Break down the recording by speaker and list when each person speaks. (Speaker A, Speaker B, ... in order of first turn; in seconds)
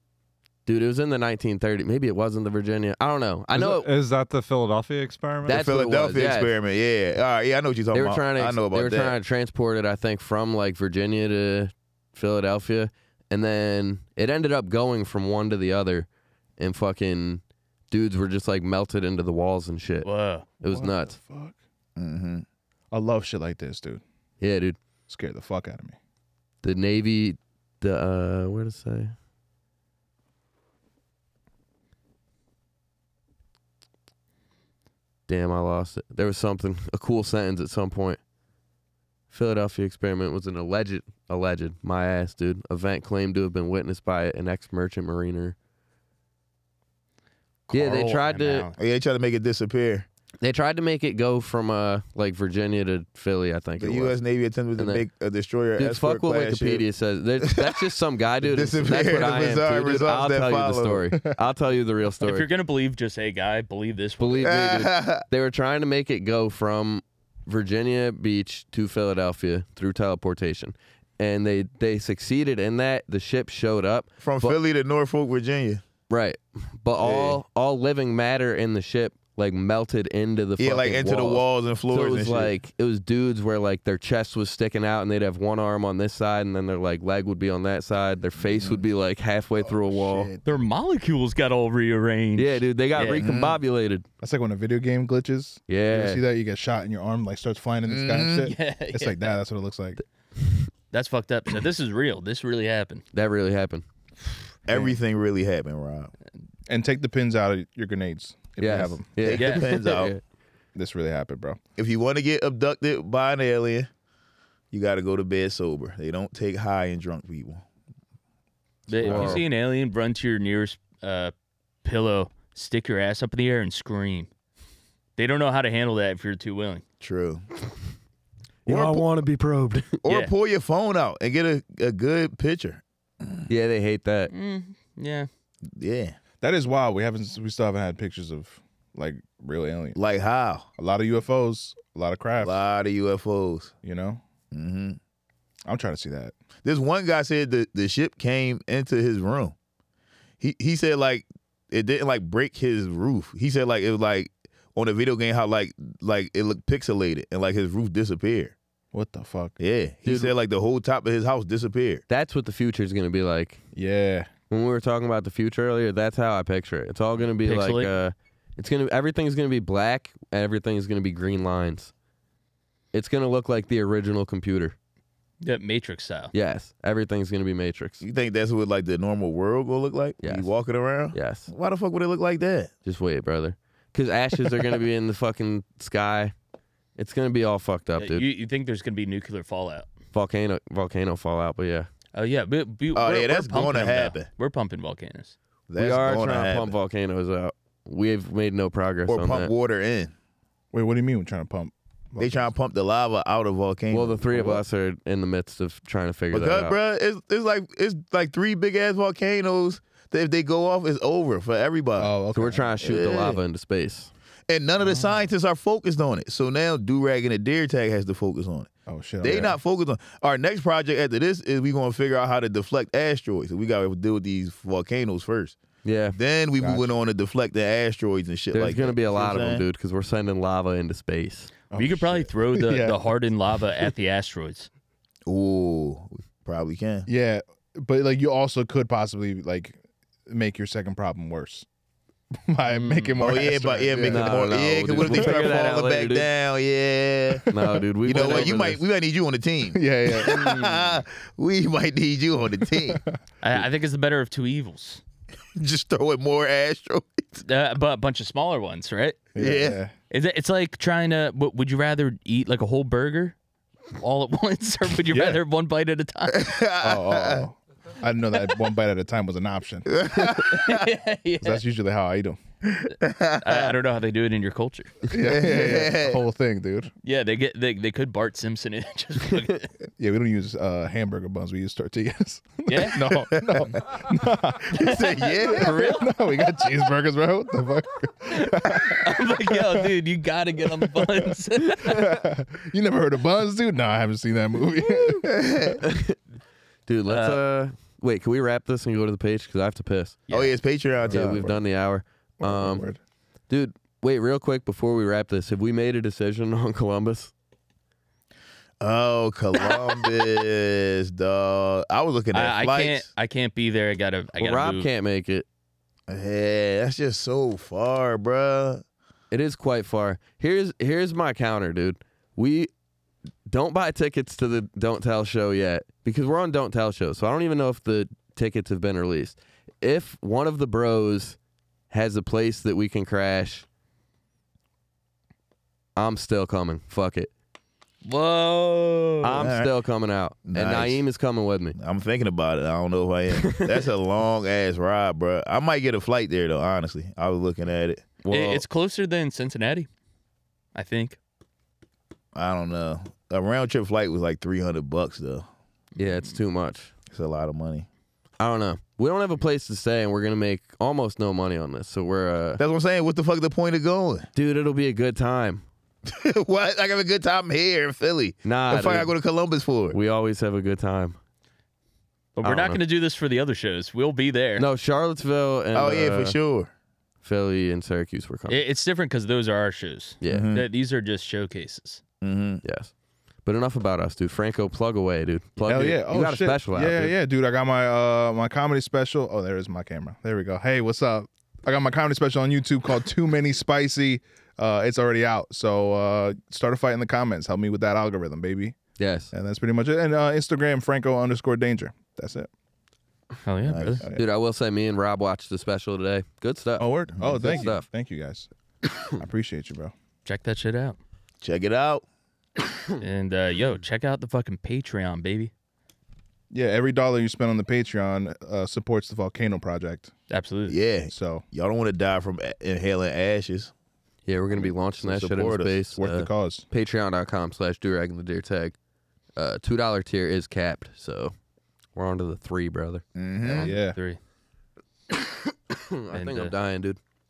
Speaker A: 0.7-3.9, 5.5-6.5, 7.9-20.1, 20.6-21.1, 24.4-24.8, 26.6-29.1, 35.3-38.2, 39.3-45.5, 47.7-48.7, 50.4-54.2, 54.8-55.0, 55.8-62.5, 64.2-74.6, 76.1-90.3, 92.3-94.0, 95.7-96.2, 103.1-103.8, 108.6-110.2, 119.0-119.4, 128.7-130.0, 133.5-134.3, 160.0-160.3, 162.1-163.6, 164.5-171.9, 172.9-174.7, 176.3-178.0, 180.2-180.5, 181.1-181.5, 182.8-186.3, 187.0-188.2, 190.1-191.9, 195.8-199.5, 203.9-206.8, 212.3-214.1, 225.8-226.2, 228.5-231.5, 244.0-246.3, 247.5-248.8, 295.8-296.2, 296.9-300.2, 301.1-302.9, 303.5-307.3, 314.4-315.4, 319.3-322.7, 323.5-331.4, 331.9-333.6, 335.9-337.3, 339.2-341.8, 343.4-343.8, 348.2-348.6, 356.0-356.9, 358.4-362.6, 364.3-365.6, 368.4-369.1, 369.9-371.2, 372.4-372.8, 374.6-376.4, 377.2-378.6, 380.2-380.6, 382.6-382.9, 383.4-387.1, 399.0-399.3, 404.0-407.9, 424.2-428.7, 429.4-431.3, 431.9-433.7, 435.7-437.0
Speaker B: 3.5-5.6
Speaker C: 5.5-9.2, 21.9-22.4, 48.8-50.1, 53.8-56.9, 57.4-57.8, 58.4-61.1, 64.4-65.2, 74.2-75.8, 77.0-77.4, 80.6-82.5, 88.5-88.8, 93.1-93.6, 97.9-98.5, 104.7-106.1, 109.2-110.1, 111.8-113.9, 114.7-117.6, 118.9-119.4, 127.0-127.4, 128.7-129.2, 130.0-133.4, 135.7-136.2, 139.9-140.7, 142.4-143.7, 144.5-145.0, 146.6-149.5, 150.4-158.5, 159.6-162.0, 178.0-182.7, 192.9-194.3, 195.7-196.7, 199.1-200.1, 202.2-204.6, 206.3-212.1, 212.8-213.4, 214.5-218.7, 219.2-225.6, 226.1-229.6, 235.2-237.1, 243.2-247.4, 248.0-253.0, 255.6-257.4, 259.4-259.8, 266.3-267.5, 269.9-270.9, 272.6-273.7, 275.1-276.2, 283.2-283.8, 284.7-286.0, 295.2-295.8, 300.3-301.5, 308.8-313.1, 316.1-318.8, 339.3-339.7, 340.4-341.0, 341.8-348.1, 352.3-355.4, 357.1-357.9, 362.6-364.3, 366.1-370.0, 375.7-376.7, 380.3-380.6, 382.2-382.6, 403.7-404.0, 407.1-407.6, 411.4-412.0, 420.7-423.7, 424.5-425.8, 433.1-433.7
Speaker D: 20.0-20.5, 47.7-48.8, 62.2-64.5, 90.4-93.2, 98.4-99.3, 100.9-103.0, 109.3-109.8, 118.9-121.3, 121.8-124.3, 125.2-126.8, 130.1-130.3, 134.3-135.3, 167.4-167.9, 175.4-176.3, 188.0-189.9, 192.1-195.3, 231.7-234.7, 242.7-243.3, 250.2-251.0, 253.4-255.0, 257.4-259.3, 260.1-263.4, 263.9-266.6, 270.2-271.6, 273.4-274.9, 277.0-279.7, 282.7-283.0, 285.5-286.0, 288.9-292.1, 297.1-297.4, 300.3-300.6, 312.3-314.9, 338.0-339.4, 348.3-349.9, 350.7-351.2, 372.4-374.6, 378.5-382.0, 403.4-404.0, 410.2-411.0, 413.0-415.5, 420.3-420.8, 433.9-434.2, 436.1-436.5
Speaker E: 20.6-21.6, 22.9-24.0, 25.1-26.0, 89.6-90.6, 94.2-100.0, 106.7-109.1, 110.7-111.6, 136.4-140.0, 140.8-142.6, 143.8-144.2, 145.7-146.3, 158.9-159.6, 163.7-164.3, 200.7-202.5, 212.0-212.7, 214.8-215.2, 218.8-219.6, 226.6-226.9, 231.7-233.0, 237.1-241.7, 242.5-245.5, 249.7-250.4, 252.8-253.2, 259.3-259.9, 265.1-265.4, 266.8-269.9, 271.4-272.4, 275.1-276.9, 280.0-289.9, 290.8-295.5, 301.0-301.6, 302.4-303.0, 385.6-398.8, 399.3-402.5, 406.8-408.5, 409.0-409.9, 416.5-420.1, 421.1-421.4, 425.9-426.6, 433.5-434.0